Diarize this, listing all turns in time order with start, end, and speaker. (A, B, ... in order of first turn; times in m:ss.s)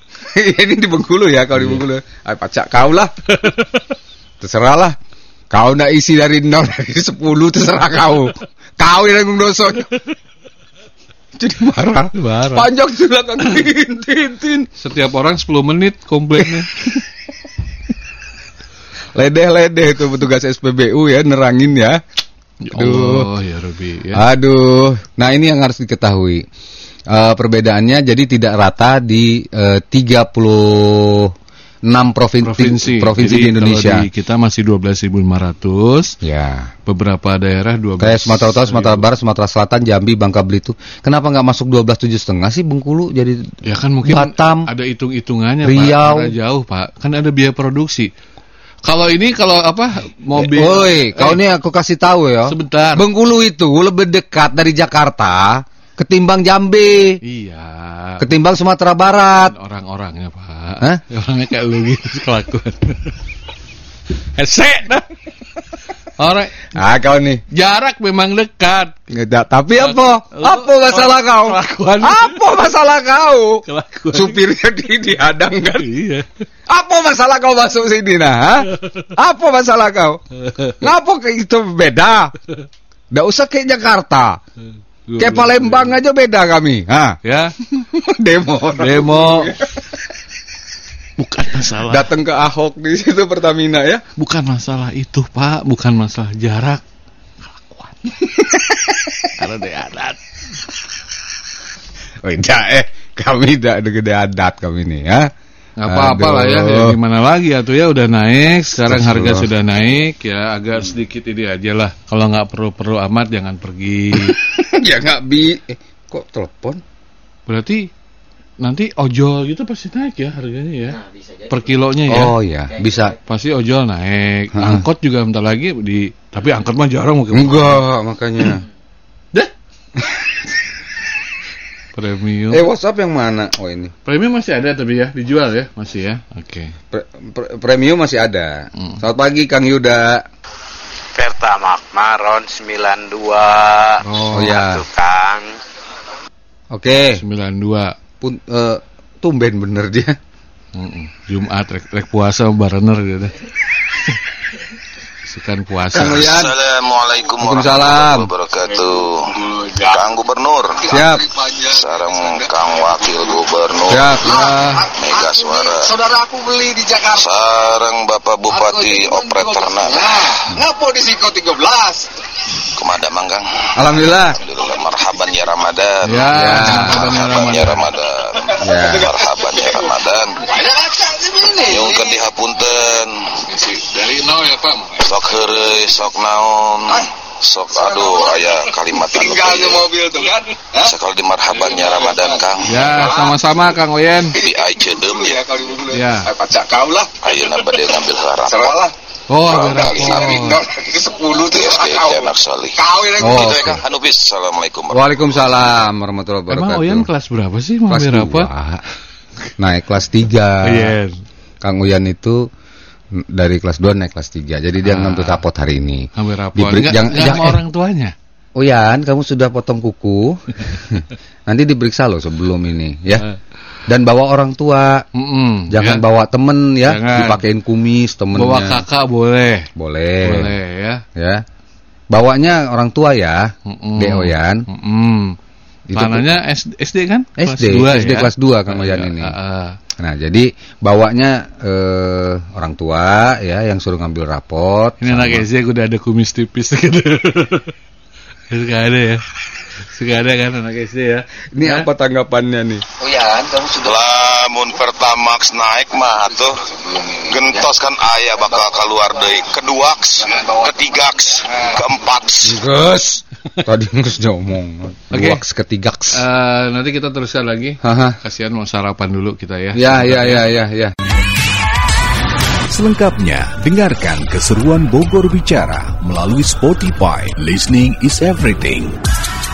0:00.3-0:03.1 A
0:03.3-0:03.9 B
0:04.4-0:05.0 A
0:05.5-0:10.0 A
0:11.4-0:14.7 A
0:12.1-0:12.7 B
0:14.8-0:16.7 B
0:19.1-0:22.0 A
0:22.6-0:24.2 B
0:22.7-0:23.3 A
0:24.1-0:26.4 A
0:27.1-0:31.3 A
0:31.8-0:34.1 A
0:32.4-0:36.2 B
0:36.2-0:36.7 A
0:36.8-0:39.0 B
0:38.0-0:43.5 A
0:43.6-0:48.1 B
0:44.0-0:44.7 A
0:45.6-0:46.3 A
0:48.8-0:51.4 B
0:50.4-0:57.2 A
0:52.5-0:53.0 B
0:57.2-0:58.3 B
0:58.2-0:59.5 A
0:59.4-1:03.2 B
1:04.4-1:05.1 B
1:06.2-1:06.7 B
1:06.7-1:07.4 A
1:07.5-1:09.0 B
1:09.1-1:15.9 A
1:09.8-1:12.5 B
1:13.6-1:14.4 B
1:15.8-1:16.2 B
1:16.7-1:20.2 A
1:20.4-1:20.8 B
1:20.8-1:22.3 A
1:23.1-1:24.4 A
1:25.1-1:25.9 B
1:25.2-1:27.2 A
1:27.2-1:27.5 B
1:27.7-1:29.8 A
1:28.8-1:29.5 B
1:31.2-1:32.1 B
1:31.9-1:34.0 A
1:34.2-1:36.8 B
1:37.4-1:38.2 B
1:38.4-1:39.2 A
1:39.4-1:40.2 B
1:42.2-1:45.3 A
1:45.8-1:54.4 B
1:45.8-1:47.0 A
1:48.8-1:49.5 A
1:54.1-1:56.8 A
1:57.5-1:57.9 B
1:58.6-2:02.4 B
2:02.1-2:03.2 A
2:03.2-2:07.8 B
2:04.5-2:04.8 A
2:07.3-2:08.6 A
2:11.9-2:12.6 B
2:12.5-2:13.9 A
2:14.0-2:16.7 B
2:16.9-2:20.2 A
2:21.1-2:25.6 C
2:24.0-2:24.6 B
2:24.3-2:24.8 A
2:26.7-2:27.2 A
2:27.2-2:27.9 B
2:28.2-2:30.2 A
2:30.8-2:33.4 B
2:35.2-2:36.4 B
2:35.9-2:36.5 A
2:36.0-2:40.9 D
2:37.4-2:38.3 A
2:40.9-2:41.3 A
2:41.3-2:41.7 E
2:41.6-2:44.1 D
2:43.9-2:44.9 A
2:45.0-2:45.9 D
2:45.9-2:47.1 E
2:47.1-2:50.4 D
2:50.5-2:52.0 E
2:52.7-3:00.5 D
2:53.8-2:54.4 A
2:56.0-2:57.9 B
2:56.3-2:57.2 A
2:58.6-2:59.1 A
3:00.8-3:01.6 E
3:01.6-3:03.6 D
3:04.0-3:04.5 B
3:04.3-3:04.8 E
3:05.0-3:09.9 D
3:10.0-3:10.4 E
3:10.8-3:12.9 D
3:12.6-3:14.4 B
3:14.3-3:15.6 D
3:15.9-3:16.3 B
3:16.3-3:17.1 E
3:17.2-3:18.9 D
3:19.3-3:20.7 B
3:19.6-3:20.6 D
3:20.8-3:21.3 E
3:21.2-3:25.7 D
3:23.2-3:23.8 A
3:24.9-3:27.1 A
3:26.5-3:28.5 B
3:27.9-3:28.8 A
3:29.6-3:31.0 A
3:30.6-3:31.1 B
3:31.6-3:32.5 A
3:33.1-3:37.6 A
3:34.8-3:35.4 B
3:36.1-3:38.1 B
3:38.6-3:43.3 A
3:43.9-3:45.0 A
3:45.1-3:46.0 B
3:45.7-3:48.8 A
3:46.8-3:47.4 B
3:48.3-3:49.7 B
3:49.8-3:50.5 A
3:50.2-3:51.0 B
3:51.2-3:51.4 A
3:52.1-3:54.6 A
3:53.6-3:55.4 B
3:55.9-3:56.4 A
3:55.9-3:59.8 B
3:57.4-3:59.3 A
4:00.0-4:05.5 A
4:05.0-4:07.7 B
4:08.5-4:09.2 B
4:09.9-4:11.9 B
4:11.5-4:13.7 A
4:13.7-4:22.6 D
4:22.4-4:26.2 A
4:25.1-4:25.4 B
4:26.1-4:30.5 B
4:27.8-4:28.2 A
4:29.7-4:30.9 A
4:32.7-4:39.0 F